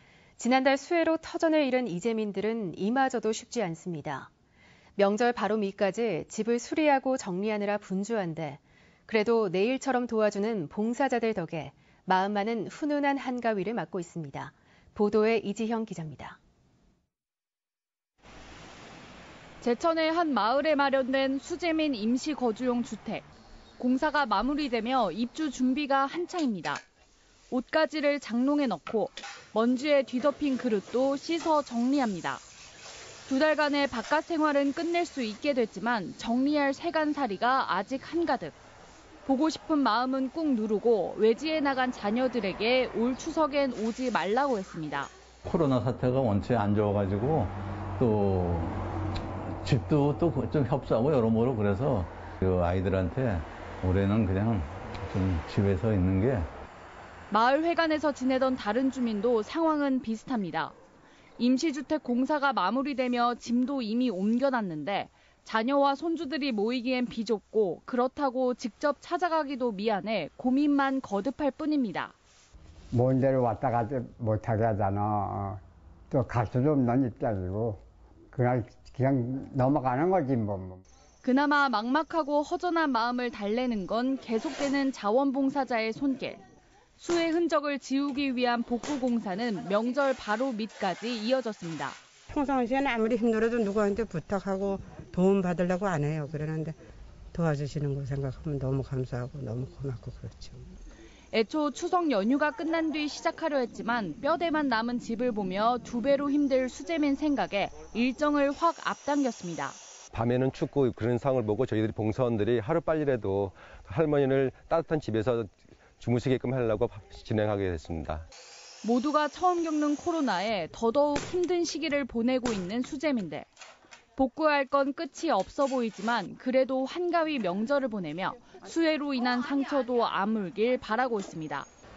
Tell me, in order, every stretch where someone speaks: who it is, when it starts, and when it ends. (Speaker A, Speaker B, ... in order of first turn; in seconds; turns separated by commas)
Speaker A: 0.4-4.3, Speaker A: 5.0-16.4, Speaker B: 19.6-23.2, Speaker B: 23.8-26.8, Speaker B: 27.5-32.4, Speaker B: 33.3-38.6, Speaker B: 39.3-45.1, Speaker C: 45.5-56.5, Speaker B: 57.3-60.8, Speaker B: 61.4-72.1, Speaker D: 72.9-77.8, Speaker D: 78.3-80.8, Speaker B: 81.2-86.4, Speaker B: 87.0-92.0, Speaker E: 92.3-96.8, Speaker E: 97.3-100.6, Speaker B: 101.3-109.8, Speaker F: 110.1-118.3, Speaker B: 118.8-123.5, Speaker B: 124.2-131.7